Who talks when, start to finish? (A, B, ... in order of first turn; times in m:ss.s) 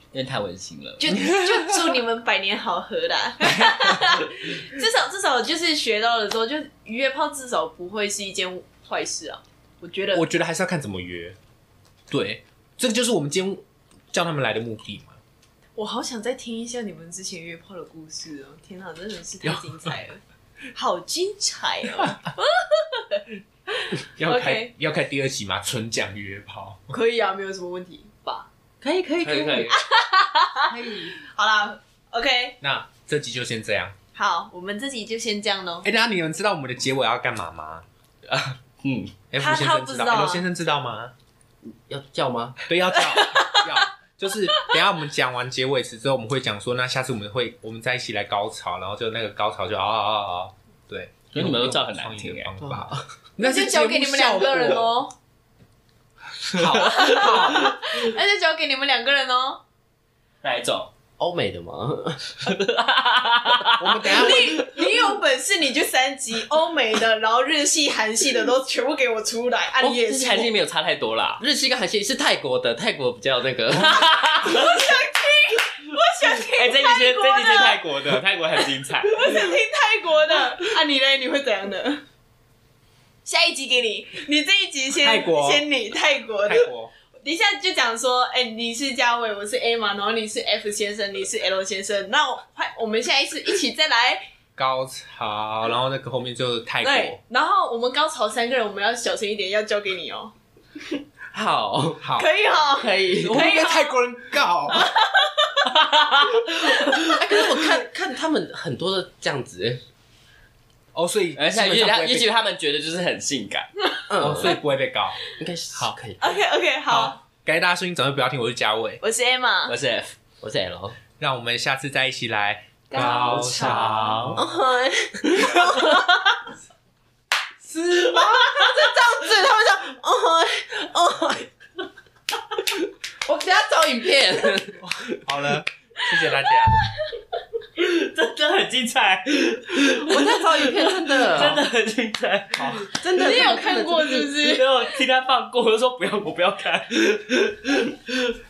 0:00.1-0:01.0 A
0:01.0-0:10.2 B
0:01.1-0:01.8 C
0:03.5-0:04.2 C
0:10.1-0:11.4 C
0:12.1-0:15.2 C
0:15.8-0:20.2 B
0:19.4-0:20.0 C
0:20.7-0:24.7 B
0:24.2-0:26.8 C
0:26.9-0:28.5 B
0:28.8-0:29.8 D
0:29.2-0:29.8 A
0:29.7-0:32.6 B
0:30.7-0:31.2 C
0:32.6-0:34.0 C
0:34.2-0:35.9 B
0:35.8-0:37.8 C
0:38.3-0:39.2 A
0:39.3-0:41.1 C
0:39.4-0:40.5 B
0:41.6-0:42.6 D
0:42.7-0:55.0 C
0:43.0-0:43.8 B
0:51.3-0:52.5 A
0:52.6-0:53.1 D
0:53.4-0:55.1 B
0:56.5-0:57.7 C
0:56.5-0:57.4 A
0:56.8-0:59.6 B
1:00.4-1:00.9 A
1:01.2-1:02.5 D
1:02.4-1:04.9 A
1:03.8-1:04.7 C
1:04.0-1:10.5 B
1:09.8-1:11.4 A
1:11.4-1:14.1 D
1:13.7-1:14.8 A
1:14.4-1:17.8 B
1:16.2-1:19.5 A
1:18.6-1:22.0 B
1:23.2-1:26.7 B
1:25.0-1:25.6 C
1:26.5-1:26.9 C
1:27.2-1:34.3 B
1:34.6-1:37.2 C
1:36.8-1:40.3 B
1:41.3-1:42.1 D
1:42.0-1:42.3 C
1:42.2-1:44.0 B
1:42.7-1:43.4 D
1:43.2-1:44.9 C
1:44.7-1:45.7 B
1:45.7-1:47.3 A
1:46.6-1:47.1 B
1:47.0-1:49.8 D
1:50.9-1:52.3 C
1:51.4-1:53.7 A
1:54.1-1:54.6 D
1:54.2-1:55.2 C
1:55.3-1:56.4 D
1:55.7-1:56.0 C
1:56.2-1:57.2 B
1:56.9-1:59.0 C
1:59.0-1:59.8 B
1:59.7-2:00.1 A
2:00.4-2:01.0 D
2:01.2-2:04.5 C
2:02.9-2:04.6 B
2:03.0-2:04.4 A
2:04.4-2:06.0 D
2:05.3-2:06.4 B
2:07.9-2:11.4 D
2:08.1-2:10.1 B
2:13.2-2:14.9 D
2:14.8-2:16.8 C
2:16.7-2:17.1 B
2:17.8-2:22.9 A
2:19.9-2:21.7 D
2:22.5-2:22.9 C
2:22.8-2:24.3 D
2:23.1-2:24.9 B
2:24.2-2:28.4 A